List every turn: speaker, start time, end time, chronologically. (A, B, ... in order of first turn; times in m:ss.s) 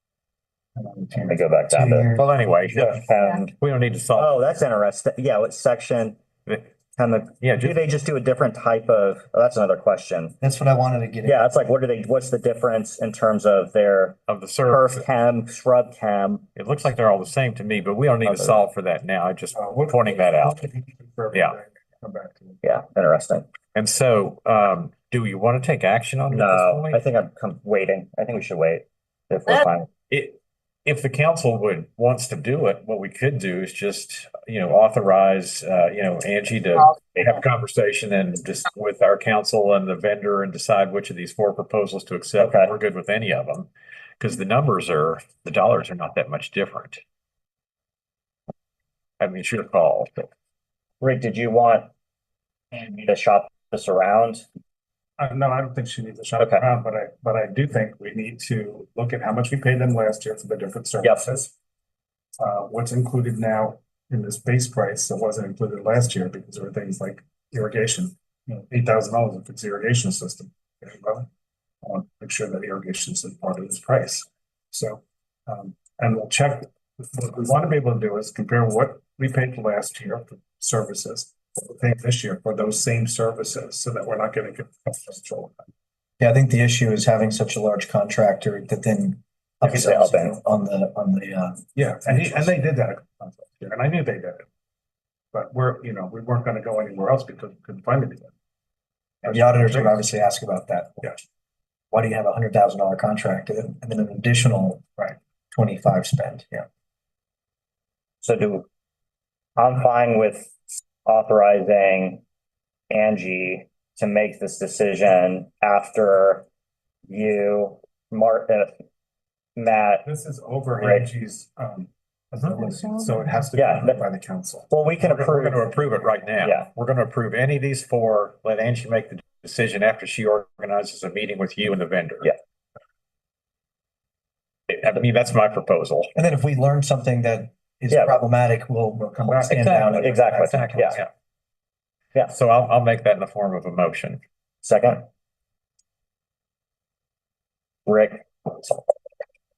0:00.8-0:01.6 A
0:01.1-0:02.1 B
0:01.7-0:02.4 C
0:02.1-0:02.9 D
0:02.7-0:03.5 B
0:03.6-0:04.4 D
0:04.1-0:10.4 B
0:07.4-0:07.8 D
0:10.4-0:11.5 C
0:11.2-0:16.5 B
0:14.3-0:15.0 D
0:16.5-0:20.5 D
0:18.2-0:18.6 B
0:19.5-0:22.6 A
0:22.6-0:23.5 B
0:23.7-0:27.0 D
0:26.3-0:29.9 B
0:30.1-0:47.0 D
0:42.4-0:42.7 B
0:49.2-0:50.3 D
0:51.0-0:51.9 B
0:52.7-0:54.4 B
0:55.2-1:01.5 A
0:56.4-0:56.6 B
1:02.4-1:11.3 A
1:11.8-1:25.6 A
1:26.2-1:32.5 C
1:29.6-1:30.4 B
1:31.7-1:34.5 A
1:35.3-1:38.3 A
1:39.2-1:40.0 A
1:39.2-1:41.2 C
1:41.9-1:46.6 C
1:48.2-1:48.6 B
1:49.6-1:52.2 B
1:52.9-1:56.5 B
1:57.1-1:58.7 B
1:59.6-2:00.0 B
2:00.0-2:04.7 A
2:00.8-2:01.1 B
2:03.6-2:04.0 B
2:04.7-2:05.6 B
2:05.1-2:12.3 D
2:06.4-2:06.7 B
2:14.7-2:16.1 D
2:16.1-2:20.6 C
2:17.9-2:18.2 B
2:19.0-2:21.0 A
2:19.9-2:21.0 B
2:20.6-2:21.0 D
2:22.3-2:24.2 D
2:24.6-2:25.0 B
2:27.8-2:28.9 B